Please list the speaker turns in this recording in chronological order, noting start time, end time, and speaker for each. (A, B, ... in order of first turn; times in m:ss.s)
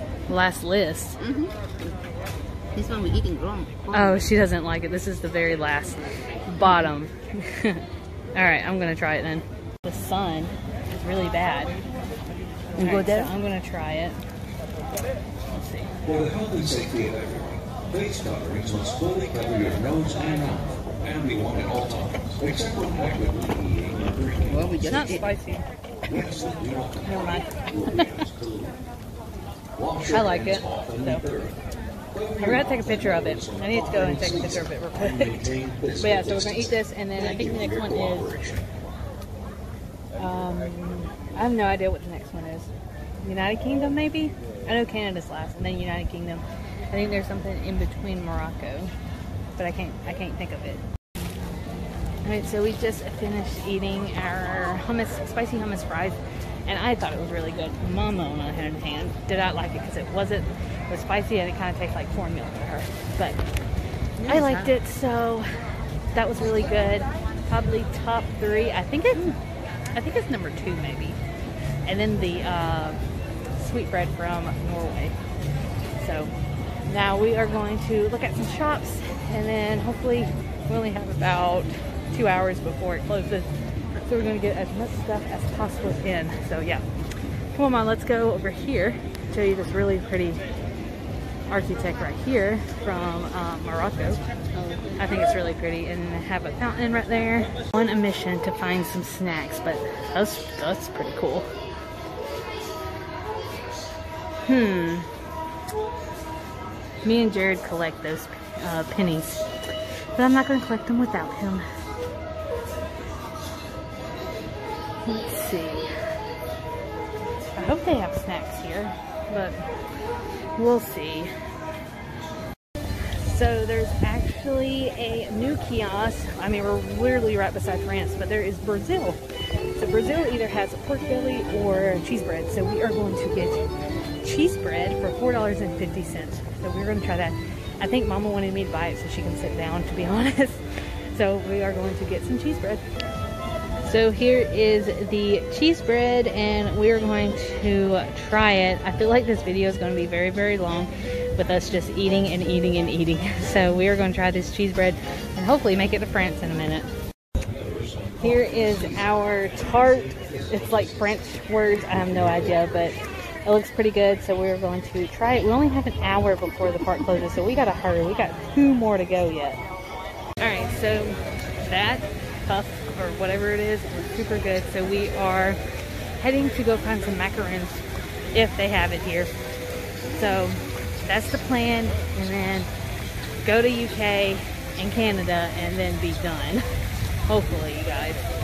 0:00.3-0:01.2 A
0:01.2-0:01.9 B
0:02.7-0:04.2 B
0:03.9-0:11.8 A
0:12.8-0:13.3 B
0:12.8-0:14.2 A
0:15.5-0:15.9 A
0:16.0-0:25.1 C
0:24.4-0:25.2 B
0:24.8-0:25.6 A
0:26.1-0:28.8 C
0:27.0-0:28.0 A
0:29.7-0:31.6 C
0:30.0-0:31.2 A
0:32.1-0:39.0 C
0:32.4-0:38.4 A
0:40.2-0:42.7 A
0:43.2-0:48.9 A
0:49.6-0:50.8 A
0:52.2-1:03.5 A
1:04.2-1:04.7 B
1:04.2-1:09.3 A
1:09.9-1:11.2 A
1:11.8-1:13.0 A
1:13.6-1:15.2 A
1:16.0-1:16.3 A
1:16.9-1:26.8 A
1:27.5-1:30.4 A
1:31.5-1:34.2 A
1:34.5-1:35.0 B
1:35.0-1:41.5 A
1:44.4-1:45.1 A
1:47.0-1:49.5 A
1:50.2-1:51.6 A
1:55.0-1:55.9 A
1:57.4-1:59.6 A
2:00.6-2:01.3 A
2:03.2-2:09.2 A
2:09.8-2:13.7 A
2:14.2-2:22.8 A
2:23.8-2:36.9 A
2:37.4-2:42.6 C
2:38.2-2:49.6 A
2:50.4-2:55.6 A
2:56.2-2:59.3 A
3:00.1-3:02.7 A
3:03.4-3:08.2 A